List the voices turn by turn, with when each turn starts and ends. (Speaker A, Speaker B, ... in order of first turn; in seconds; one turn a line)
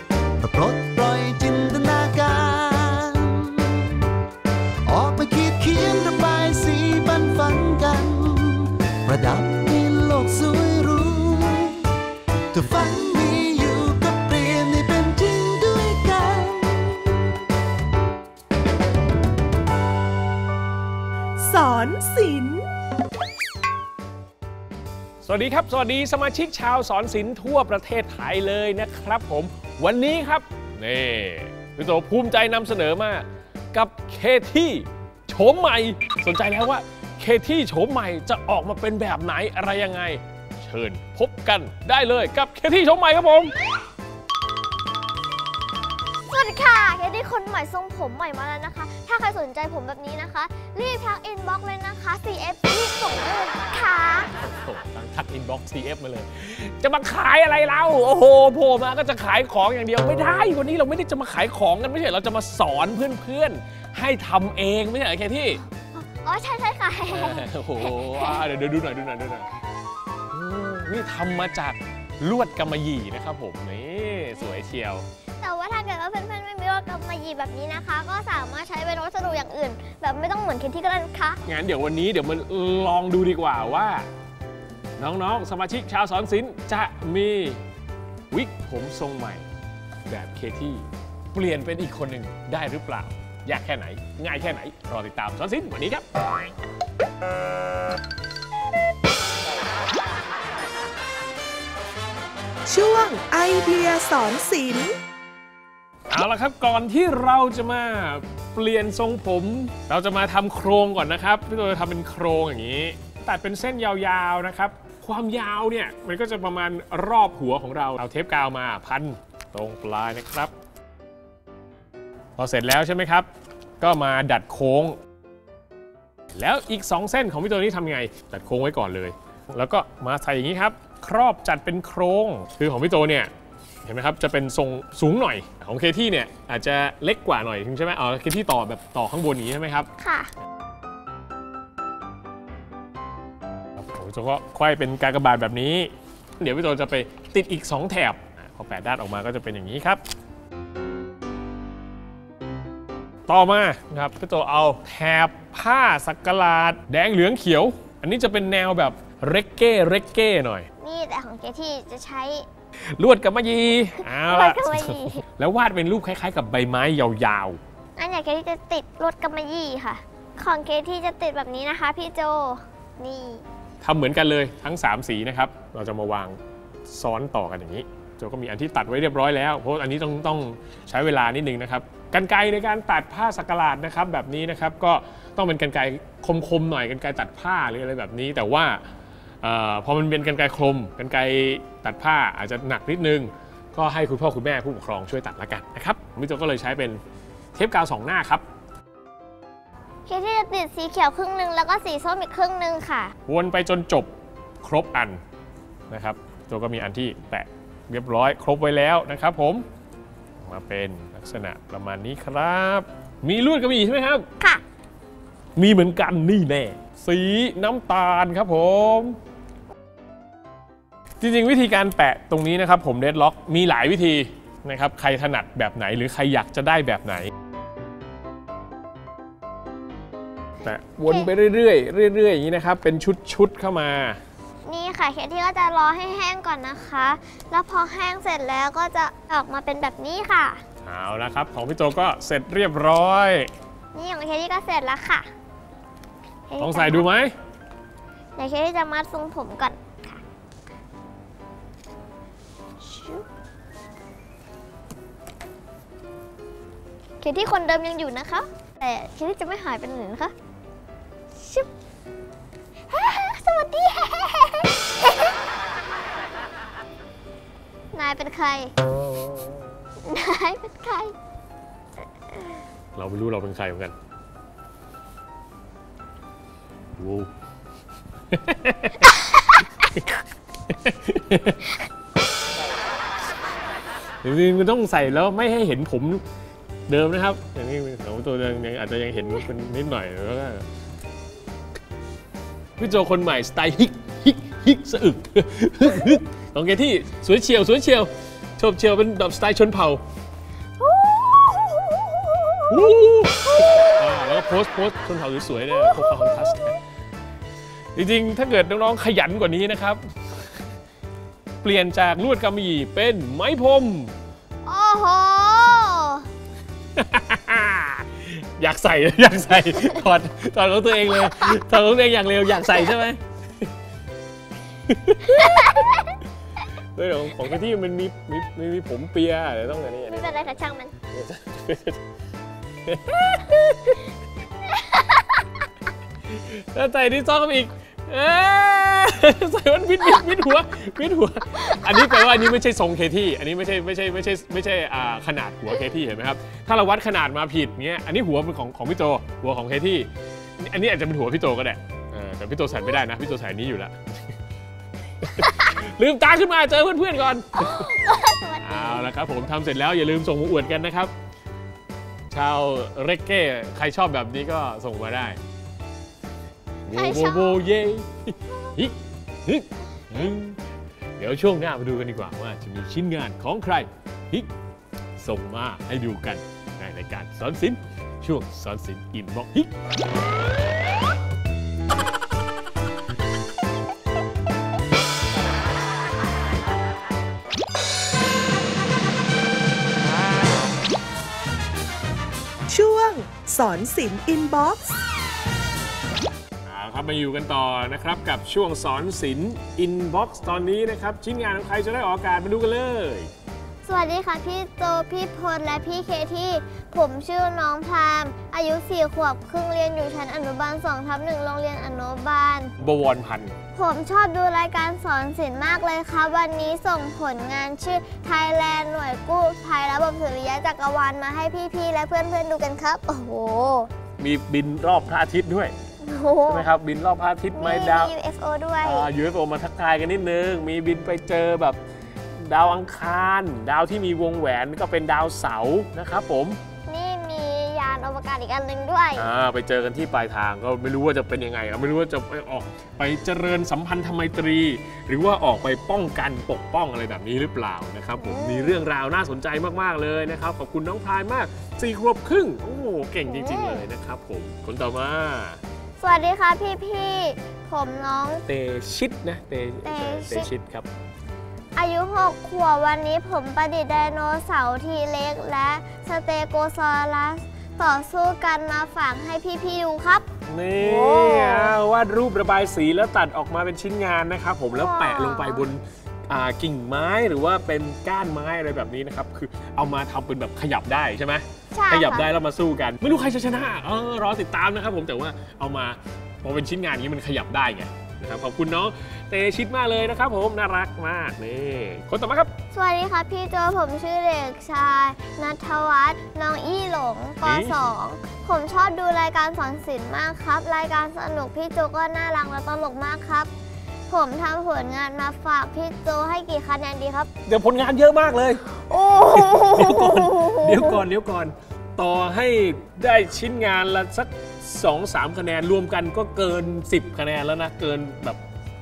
Speaker A: 0.4-4.1
Speaker A: 4.9-11.9
Speaker A: 12.5-17.4
Speaker B: 21.4-22.6
Speaker C: 25.2-43.6
Speaker D: 46.3-54.3
Speaker C: 54.4-65.6
Speaker D: 65.7-68.5
Speaker C: 67.1-69.5
Speaker C: 70.3-75.0
Speaker D: 75.4-81.4
Speaker C: 81.5-84.1
Speaker C: 85.0-87.6
Speaker C: 88.3-89.5
Speaker C: 90.1-96.1
Speaker B: 102.7-105.0
Speaker C: 106.1-120.5
Speaker C: 122.4-123.3
Speaker C: 123.8-125.0
Speaker C: 126.3-133.3
Speaker C: 133.8-139.9
Speaker D: 140.0-140.3
Speaker C: 143.8-150.0
Speaker C: 153.3-160.7
Speaker D: 160.8-162.5
Speaker C: 163.0-167.6
Speaker D: 164.0-165.2
Speaker D: 168.0-173.4
Speaker C: 173.8-176.4
Speaker C: 176.9-188.8
Speaker C: 189.4-197.0
Speaker C: 197.6-198.4
Speaker D: 200.1-203.1
Speaker C: 203.3-204.1
Speaker C: 204.6-205.2
Speaker C: 205.9-209.7
Speaker C: 210.4-214.3
Speaker C: 215.6-219.2
Speaker C: 221.2-227.3
Speaker C: 230.6-234.2
Speaker D: 234.7-240.6
Speaker C: 240.8-243.5
Speaker D: 243.9-245.3
Speaker D: 246.5-247.1
Speaker C: 246.6-247.3
Speaker D: 248.4-250.2
Speaker D: 252.8-253.2
Speaker D: 257.2-260.3
Speaker D: 261.4-261.7
Speaker D: 262.9-265.3
Speaker D: 267.9-268.7
Speaker D: 270.0-271.1
Speaker C: 272.9-273.9
Speaker C: 277.0-277.3
Speaker C: 278.3-279.2
Speaker C: 280.7-281.6
Speaker C: 284.2-286.2
Speaker C: 286.9-290.7
Speaker C: 292.8-300.0
Speaker D: 300.8-302.9
Speaker C: 302.7-306.8
Speaker D: 303.5-304.3
Speaker D: 305.7-306.8
Speaker C: 308.0-310.0
Speaker C: 311.6-314.1
Speaker D: 314.6-316.3
Speaker C: 317.0-323.2
Speaker C: 324.9-325.8
Speaker D: 325.4-326.1
Speaker C: 326.9-332.0
Speaker D: 330.1-331.0
Speaker C: 332.9-334.0
Speaker D: 334.6-335.4
Speaker C: 336.3-354.1
Speaker D: 341.6-342.4
Speaker C: 355.2-357.9
Speaker D: 357.6-359.1
Speaker C: 358.6-361.1
Speaker C: 362.3-365.4
Speaker C: 366.9-370.6
Speaker D: 366.9-367.6
Speaker C: 371.2-374.5
Speaker C: 375.2-379.7
Speaker B: 392.7-395.0
Speaker C: 396.6-403.3
Speaker D: 403.9-412.7
Speaker C: 412.8-413.6
Speaker D: 413.7-423.9
Speaker C: 424.2-425.7
Speaker D: 426.0-426.7
Speaker C: 426.5-428.1
Speaker D: 427.5-429.1
Speaker C: 428.8-431.8
Speaker C: 432.4-436.6
Speaker D: 436.9-439.3
Speaker C: 439.1-455.6
Speaker D: 448.2-448.8
Speaker D: 453.3-453.9
Speaker D: 456.0-458.4
Speaker C: 458.5-460.9
Speaker D: 459.8-460.5
Speaker D: 461.8-471.8
Speaker C: 470.5-492.6
Speaker D: 474.7-475.7
Speaker D: 481.7-482.3
Speaker D: 492.7-503.5
Speaker C: 497.4-498.0
Speaker D: 504.1-507.3
Speaker C: 507.5-518.4
Speaker D: 508.8-511.1